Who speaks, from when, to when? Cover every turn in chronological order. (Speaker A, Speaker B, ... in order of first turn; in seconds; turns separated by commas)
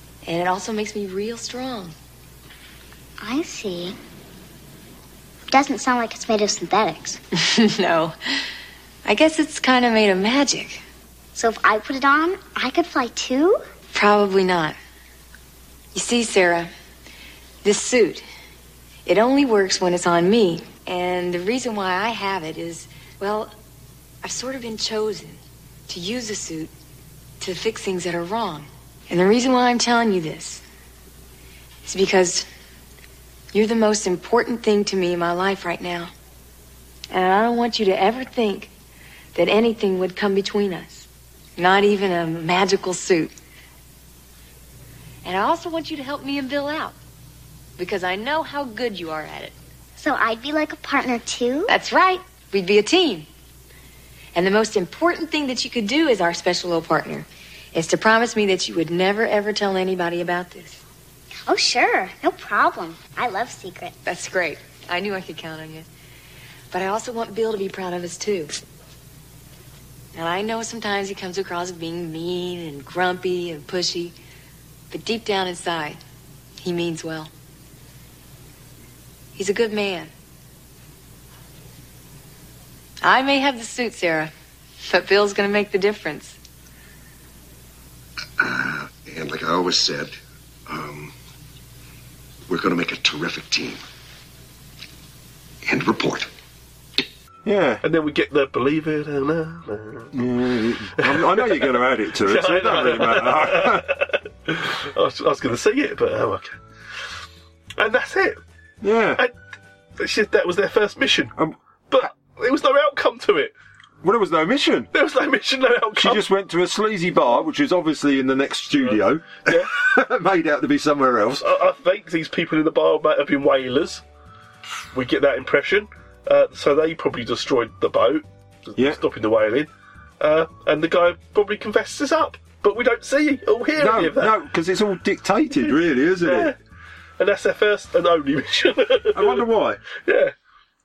Speaker A: 0.2-1.9, Speaker B: 3.2-4.0, Speaker B: 5.5-7.2, Speaker A: 7.4-8.4, Speaker A: 9.1-10.8, Speaker B: 11.3-13.6, Speaker A: 13.9-14.8, Speaker A: 15.9-16.7, Speaker A: 17.6-18.2, Speaker A: 19.1-23.5, Speaker A: 24.2-26.7, Speaker A: 27.4-30.6, Speaker A: 31.9-32.5, Speaker A: 33.5-36.1, Speaker A: 37.1-38.7, Speaker A: 39.4-43.3, Speaker A: 45.2-47.0, Speaker A: 47.8-49.5, Speaker B: 50.0-51.7, Speaker A: 51.7-53.3, Speaker A: 54.4-60.8, Speaker B: 61.5-63.9, Speaker A: 64.0-65.9, Speaker A: 66.7-68.6, Speaker A: 70.2-74.2, Speaker A: 74.9-76.0, Speaker A: 76.6-77.3, Speaker A: 79.3-80.1, Speaker A: 83.0-84.3, Speaker A: 84.8-86.4, Speaker C: 88.4-91.1, Speaker C: 92.5-93.8, Speaker C: 95.7-96.3, Speaker D: 97.5-97.8, Speaker E: 97.8-100.1, Speaker D: 100.1-103.9, Speaker E: 101.0-106.6, Speaker E: 107.8-108.4, Speaker D: 108.8-109.2, Speaker E: 110.0-111.3, Speaker D: 111.4-112.0, Speaker E: 111.9-113.5, Speaker D: 114.0-114.9, Speaker E: 114.9-116.3, Speaker D: 116.0-121.5, Speaker E: 118.8-119.7, Speaker E: 121.3-124.0, Speaker E: 124.9-134.4, Speaker D: 133.8-136.5, Speaker E: 136.2-136.6, Speaker E: 137.2-140.3, Speaker D: 139.1-139.8